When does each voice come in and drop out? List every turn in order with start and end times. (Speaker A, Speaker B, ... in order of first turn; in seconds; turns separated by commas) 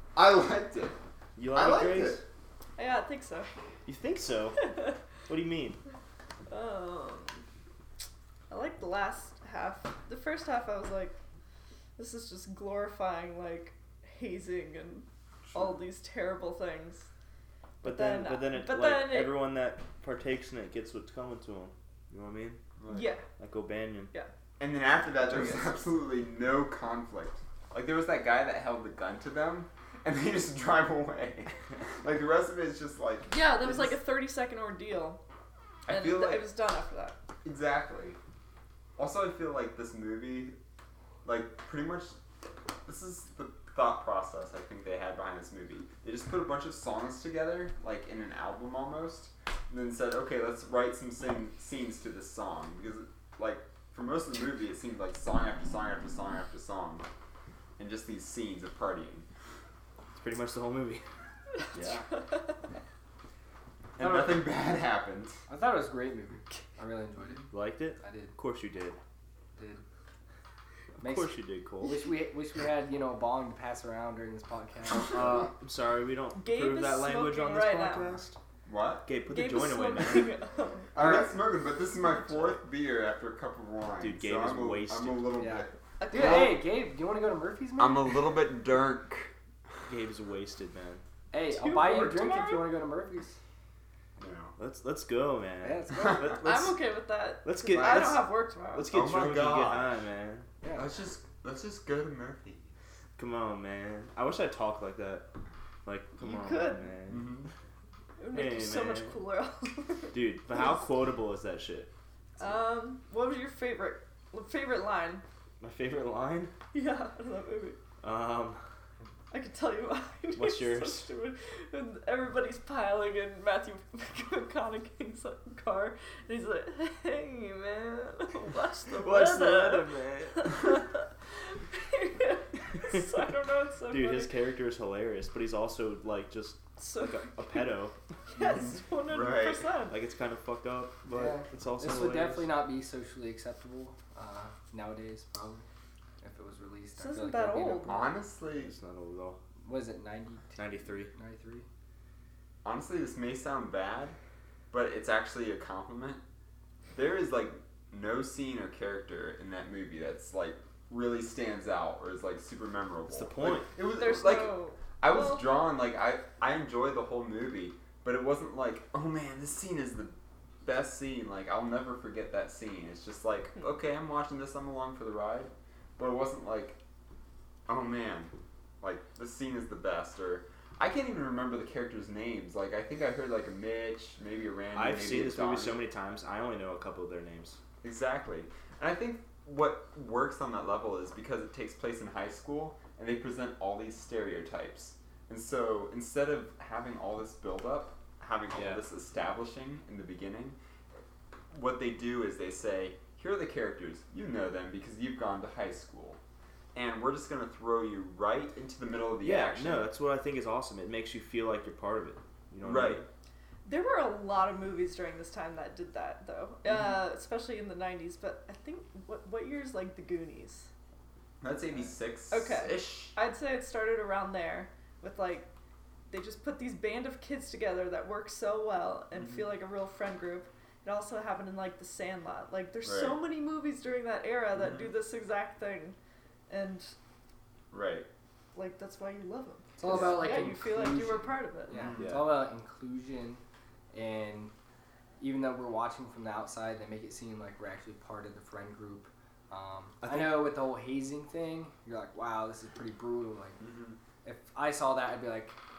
Speaker A: 0.1-1.0, Speaker B: 1.4-2.2, Speaker A: 1.5-2.2, Speaker C: 2.8-3.5, Speaker B: 3.9-4.7, Speaker C: 4.6-5.0, Speaker B: 5.3-5.8, Speaker C: 6.5-7.4, Speaker C: 8.5-11.2, Speaker C: 12.0-17.1, Speaker A: 15.5-15.8, Speaker C: 17.8-19.3, Speaker B: 17.8-22.6, Speaker A: 22.8-23.1, Speaker C: 22.9-23.2, Speaker B: 23.4-24.1, Speaker A: 24.6-34.0, Speaker B: 25.3-25.6, Speaker C: 33.3-35.2, Speaker A: 35.9-36.5, Speaker C: 35.9-37.2, Speaker A: 37.5-38.2, Speaker A: 39.0-40.5, Speaker A: 41.2-42.2, Speaker A: 42.9-57.1, Speaker A: 57.8-59.3, Speaker B: 60.1-61.0, Speaker C: 61.6-62.6, Speaker A: 61.8-62.0, Speaker A: 64.0-65.4, Speaker D: 64.0-64.5, Speaker D: 65.5-68.3, Speaker B: 67.5-69.0, Speaker D: 69.6-69.8, Speaker D: 71.0-75.5, Speaker B: 71.0-72.0, Speaker B: 75.1-78.4, Speaker C: 76.3-78.2, Speaker A: 78.7-79.1, Speaker B: 79.0-80.3, Speaker C: 79.3-81.0, Speaker A: 81.0-86.5, Speaker D: 81.0-81.3, Speaker B: 84.0-85.4, Speaker D: 85.4-88.3, Speaker C: 86.0-86.6, Speaker A: 87.8-89.3, Speaker B: 89.9-91.0, Speaker D: 91.3-93.4, Speaker C: 91.5-92.7, Speaker A: 94.2-94.5, Speaker B: 94.6-96.7, Speaker D: 95.6-96.4, Speaker A: 96.0-96.4, Speaker C: 96.4-98.9, Speaker B: 97.4-100.5, Speaker A: 97.8-98.1, Speaker A: 98.9-100.1, Speaker D: 100.6-100.9, Speaker A: 100.8-102.7, Speaker B: 103.2-105.3, Speaker B: 105.9-107.4, Speaker C: 106.2-106.9, Speaker A: 107.1-107.5, Speaker C: 108.2-110.8, Speaker B: 108.3-109.2, Speaker B: 110.1-111.9, Speaker C: 112.4-115.2, Speaker B: 115.6-116.5, Speaker C: 116.7-117.8, Speaker B: 118.0-118.6, Speaker C: 119.3-134.3, Speaker B: 120.3-121.1, Speaker B: 128.9-130.8, Speaker B: 132.8-133.1, Speaker B: 133.9-138.0, Speaker C: 136.8-137.7, Speaker C: 138.3-140.0, Speaker A: 138.4-139.7, Speaker B: 139.9-142.5, Speaker D: 141.1-145.7, Speaker D: 146.2-148.1, Speaker C: 147.0-148.1, Speaker A: 147.9-148.8, Speaker B: 148.6-149.4, Speaker D: 149.6-151.7, Speaker B: 150.6-151.1, Speaker A: 152.6-154.2, Speaker A: 154.7-156.2, Speaker A: 156.9-176.8, Speaker B: 163.1-163.7, Speaker C: 163.9-165.5, Speaker A: 177.7-185.8, Speaker B: 184.7-187.6, Speaker A: 187.8-200.6, Speaker B: 198.5-198.8, Speaker A: 201.5-206.2, Speaker A: 206.7-209.9, Speaker B: 209.2-213.1, Speaker A: 212.6-213.0, Speaker C: 213.7-220.7, Speaker A: 221.4-223.2, Speaker C: 222.3-225.5, Speaker C: 226.1-236.0, Speaker A: 229.2-229.5, Speaker A: 232.8-233.2, Speaker A: 234.6-234.9, Speaker C: 236.5-236.9, Speaker A: 237.7-238.1, Speaker C: 238.5-241.9, Speaker D: 239.8-243.4, Speaker A: 241.7-242.2, Speaker B: 242.0-242.3, Speaker D: 243.9-244.5, Speaker D: 245.2-253.6, Speaker B: 250.0-250.5, Speaker A: 253.6-254.0, Speaker D: 254.2-255.6